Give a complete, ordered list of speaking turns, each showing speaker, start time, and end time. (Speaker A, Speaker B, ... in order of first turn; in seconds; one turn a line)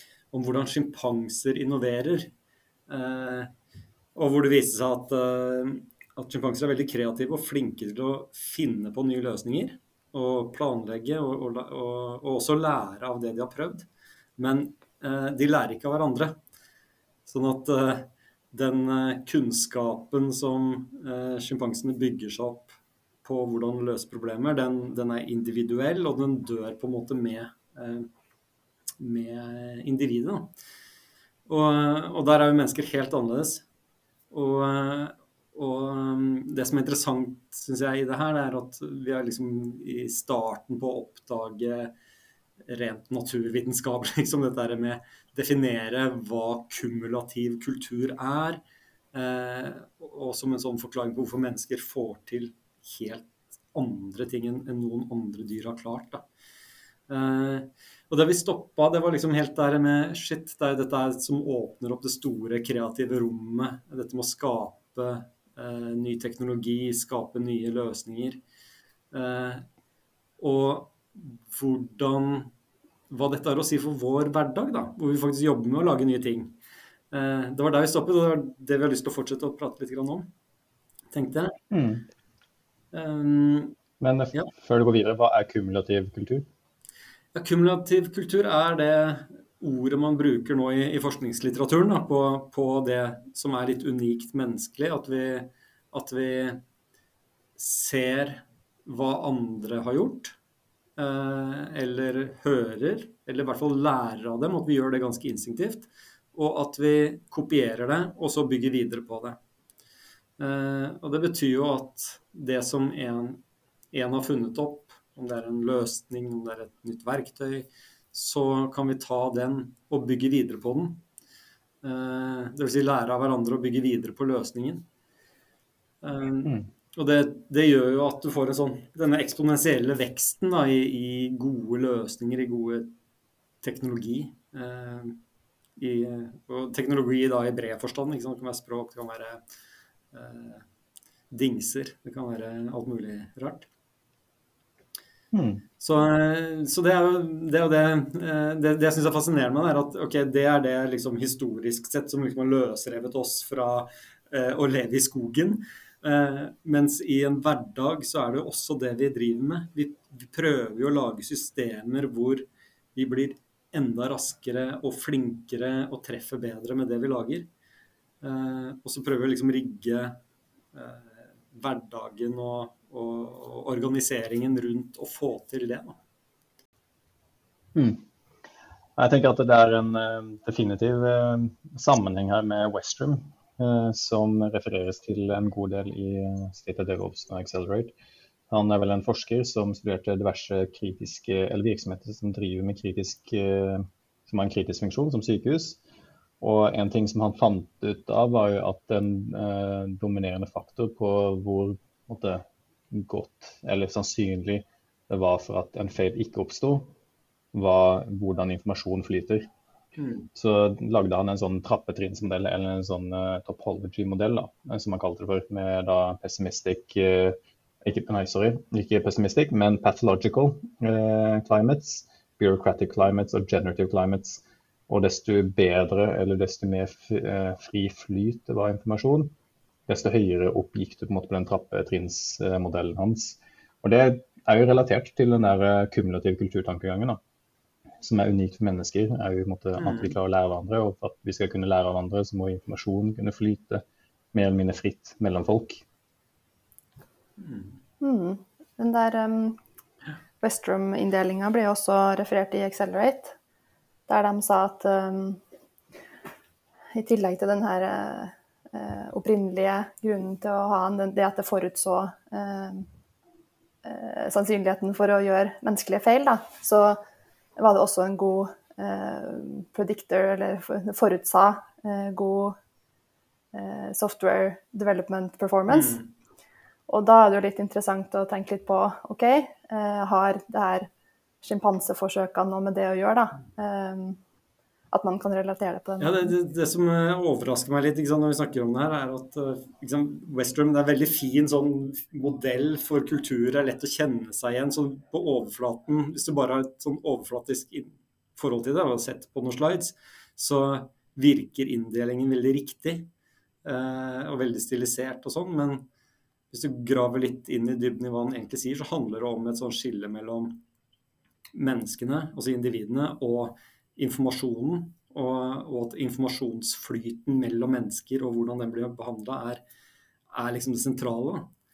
Speaker A: 0.3-2.3
Speaker A: 2.9-3.5
Speaker A: 4.2-16.4
Speaker A: 17.3-22.7
Speaker A: 23.2-28.1
Speaker A: 29.0-30.5
Speaker A: 31.5-33.6
Speaker A: 34.3-41.9
Speaker A: 42.7-48.6
Speaker A: 49.1-56.3
Speaker A: 57.1-68.4
Speaker A: 69.1-69.7
Speaker A: 70.4-72.5
Speaker A: 73.1-76.6
Speaker A: 77.1-80.3
Speaker A: 81.1-81.5
Speaker B: 81.7-82.0
Speaker A: 82.9-83.8
Speaker B: 84.0-86.5
Speaker A: 87.3-96.6
Speaker A: 97.6-100.4
Speaker A: 101.0-109.4
Speaker A: 110.4-113.4
Speaker A: 113.9-121.0
Speaker A: 121.8-124.8
Speaker A: 126.0-132.9
Speaker A: 133.6-135.2
Speaker A: 135.8-139.4
Speaker A: 140.1-140.7
Speaker A: 141.3-143.7
Speaker B: 145.3-145.6
Speaker A: 145.8-167.5
Speaker A: 168.2-170.2
Speaker A: 170.7-176.0
Speaker B: 177.8-178.0
Speaker B: 179.0-187.9
Speaker B: 188.5-195.8
Speaker B: 196.4-206.9
Speaker B: 207.5-209.5
Speaker A: 210.0-210.3
Speaker B: 210.3-229.3
Speaker B: 229.9-237.2
Speaker B: 238.0-243.8
Speaker A: 239.8-240.2
Speaker B: 244.3-245.8
Speaker A: 247.4-247.8
Speaker C: 248.0-249.6
Speaker C: 250.4-253.3
Speaker C: 254.1-255.4
Speaker C: 256.9-262.9
Speaker C: 263.9-267.0
Speaker C: 267.6-272.6
Speaker C: 273.5-276.0
Speaker A: 275.7-276.1
Speaker C: 276.9-280.9
Speaker C: 281.4-284.2
Speaker C: 284.9-286.4
Speaker A: 286.0-303.1
Speaker A: 303.6-305.9
Speaker A: 306.5-310.6
Speaker A: 311.5-319.6
Speaker A: 320.3-321.5